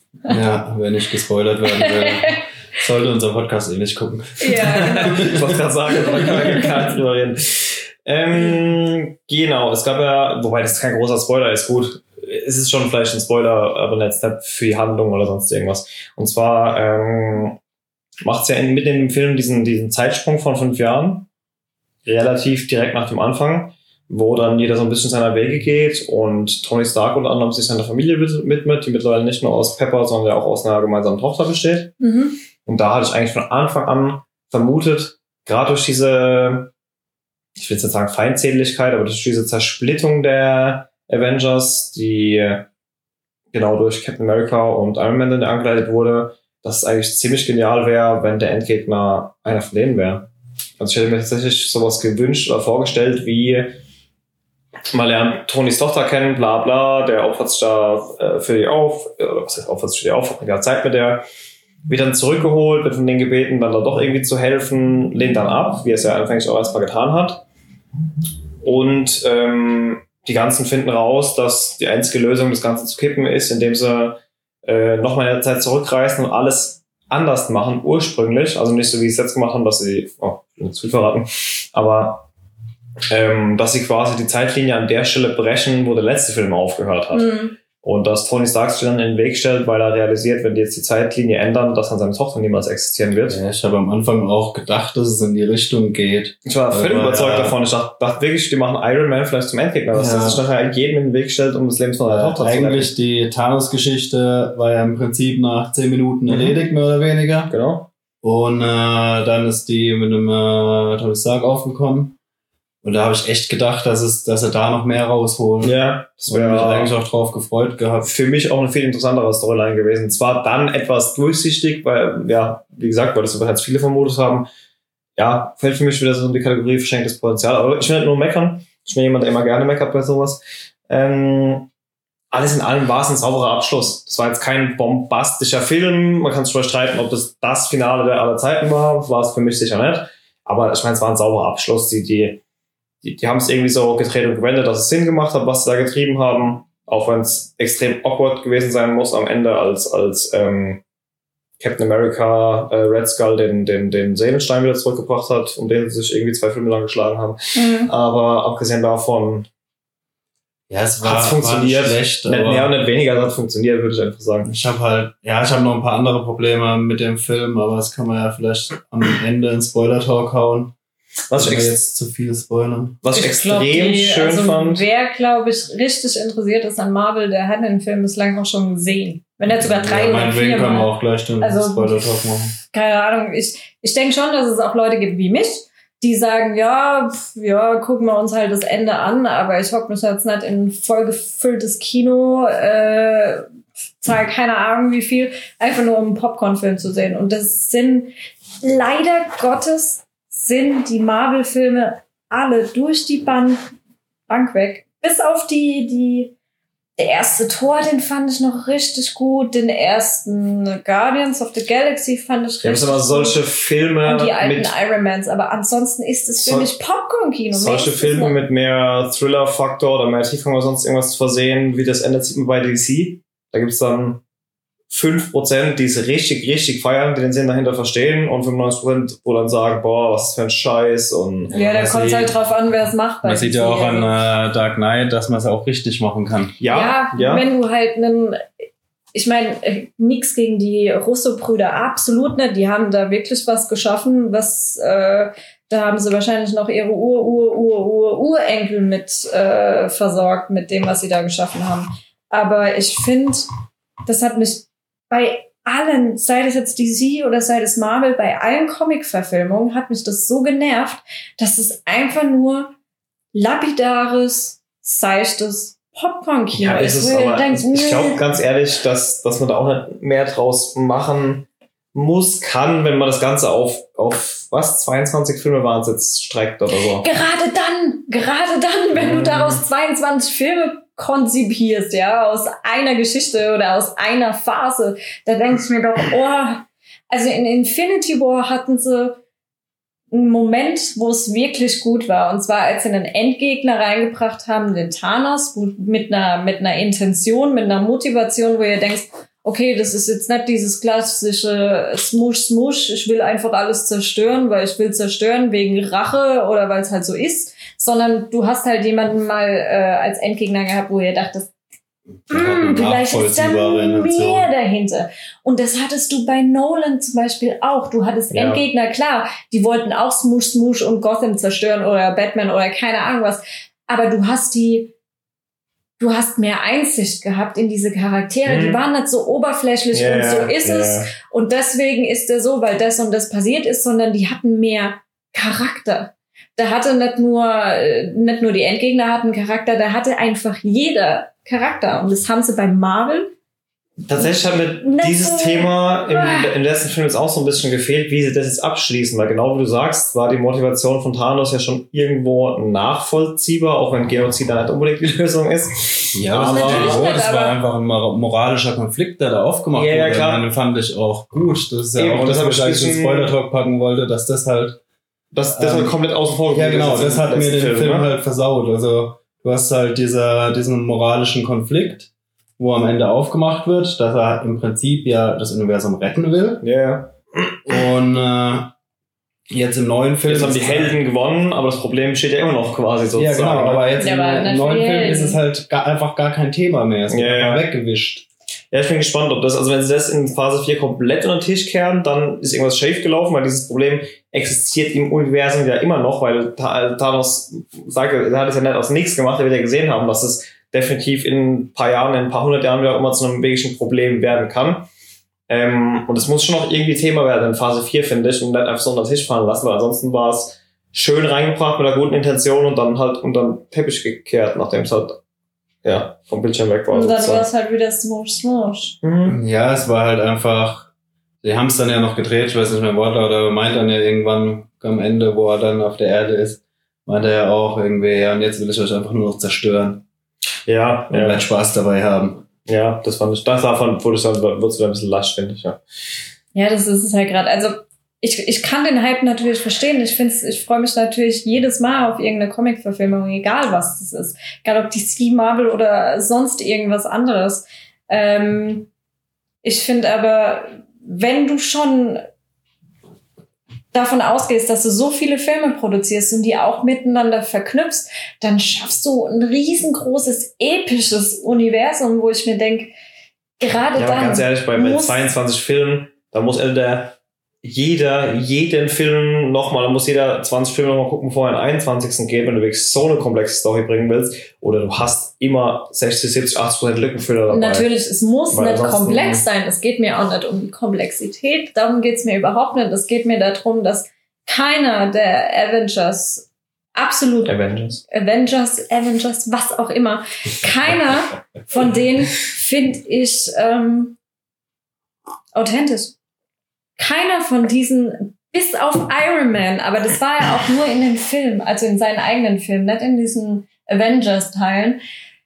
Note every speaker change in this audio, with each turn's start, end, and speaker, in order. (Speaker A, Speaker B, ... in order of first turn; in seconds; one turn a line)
Speaker A: 0.3-5.5
Speaker B: 1.7-2.4
Speaker B: 4.4-5.3
Speaker C: 4.8-17.6
Speaker C: 18.2-21.3
Speaker C: 22.0-31.9
Speaker B: 32.0-32.3
Speaker C: 32.6-36.7
Speaker C: 37.5-42.7
Speaker C: 43.5-50.3
Speaker C: 50.8-53.8
Speaker C: 54.9-61.2
Speaker C: 61.9-67.4
Speaker C: 68.6-82.3
Speaker C: 83.1-93.4
Speaker B: 87.1-87.5
Speaker A: 93.3-97.5
Speaker C: 96.4-102.9
Speaker A: 99.9-100.4
Speaker A: 102.0-107.5
Speaker C: 106.3-106.6
Speaker C: 107.5-107.9
Speaker A: 108.2-112.2
Speaker A: 112.8-115.7
Speaker C: 115.6-116.9
Speaker A: 116.3-118.1
Speaker C: 118.0-124.5
Speaker C: 125.2-131.7
Speaker C: 132.3-142.4
Speaker C: 143.0-150.8
Speaker C: 151.6-159.5
Speaker B: 157.6-157.9
Speaker A: 160.7-162.7
Speaker C: 161.0-164.5
Speaker A: 164.4-170.7
Speaker C: 171.3-171.7
Speaker A: 171.3-173.0
Speaker C: 173.0-174.8
Speaker B: 173.1-182.1
Speaker A: 179.5-182.5
Speaker B: 182.6-193.5
Speaker B: 194.0-203.6
Speaker B: 204.3-206.3
Speaker B: 207.0-213.4
Speaker C: 212.6-214.7
Speaker B: 214.0-218.4
Speaker C: 217.5-224.2
Speaker C: 224.9-231.5
Speaker A: 231.5-232.3
Speaker B: 231.5-234.1
Speaker A: 233.2-236.6
Speaker C: 236.6-237.4
Speaker B: 236.7-238.4
Speaker B: 239.1-253.5
Speaker B: 254.1-262.7
Speaker B: 263.3-268.2
Speaker C: 266.5-277.1
Speaker B: 277.0-289.2
Speaker C: 278.9-279.6
Speaker B: 290.1-311.5
Speaker A: 312.3-314.5
Speaker B: 312.3-324.9
Speaker C: 318.3-318.6
Speaker B: 326.0-343.3
Speaker C: 328.4-328.8
Speaker C: 329.9-331.1
Speaker C: 344.1-357.1
Speaker B: 344.8-346.5
Speaker A: 356.1-364.8
Speaker B: 356.4-357.6
Speaker C: 359.7-360.4
Speaker C: 362.0-363.3
Speaker C: 365.3-368.1
Speaker A: 365.5-366.0
Speaker A: 366.5-376.6
Speaker C: 376.6-377.6
Speaker A: 377.6-378.7
Speaker A: 379.5-381.0
Speaker C: 380.2-383.9
Speaker A: 383.1-388.2
Speaker B: 384.0-385.4
Speaker C: 387.1-387.7
Speaker C: 388.7-404.9
Speaker C: 405.5-415.2
Speaker C: 415.8-417.4
Speaker B: 416.9-418.9
Speaker C: 419.0-419.4
Speaker A: 419.2-420.9
Speaker A: 421.4-430.0
Speaker C: 430.7-431.4
Speaker A: 431.1-432.4
Speaker C: 432.7-435.8
Speaker B: 436.5-448.9
Speaker B: 449.6-452.2
Speaker B: 453.9-462.9
Speaker B: 463.6-465.2
Speaker C: 463.9-477.9
Speaker B: 477.5-487.6
Speaker C: 478.5-479.4
Speaker C: 487.4-488.0
Speaker B: 488.1-494.1
Speaker B: 495.5-496.1
Speaker B: 497.0-505.0